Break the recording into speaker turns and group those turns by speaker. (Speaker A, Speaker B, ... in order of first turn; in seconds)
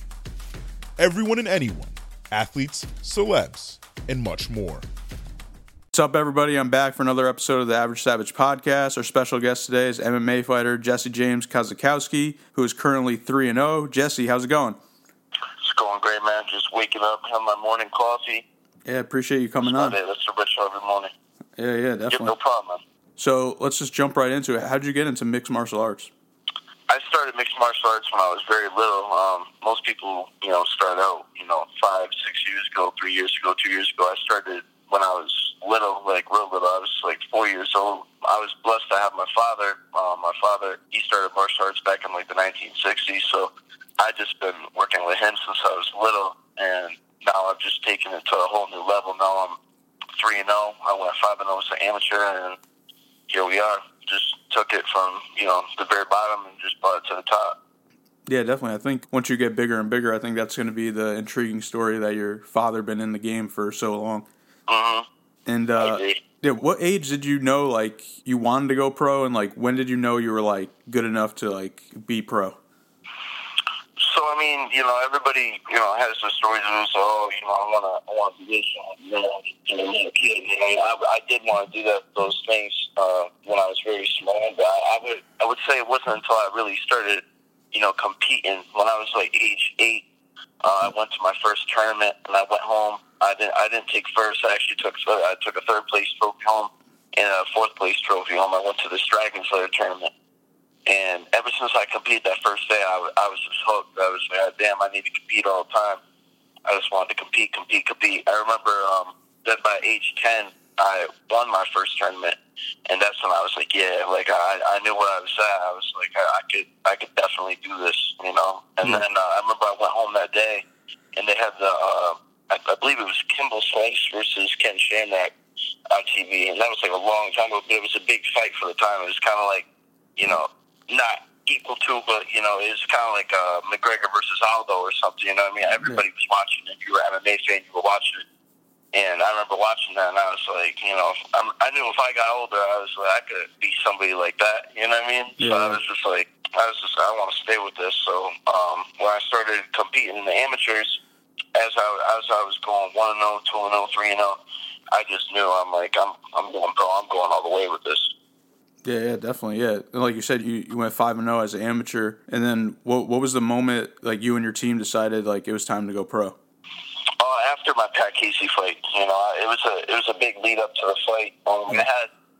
Speaker A: 1.0-4.9
Speaker B: 5.9-14.8, 18.9-20.0, 21.6-22.3, 23.2-26.1, 58.3-64.3, 65.5-72.5, 145.4-145.8, 158.8-166.3
Speaker C: 15.6-18.4, 19.6-21.1, 22.1-22.8, 26.9-49.6, 50.2-52.6, 53.3-57.6, 64.7-65.1, 65.8-66.2, 74.0-90.0, 90.6-100.1, 100.9-106.0, 106.7-125.3, 125.9-138.2, 138.9-151.0, 151.6-154.4, 154.9-158.1, 167.2-172.1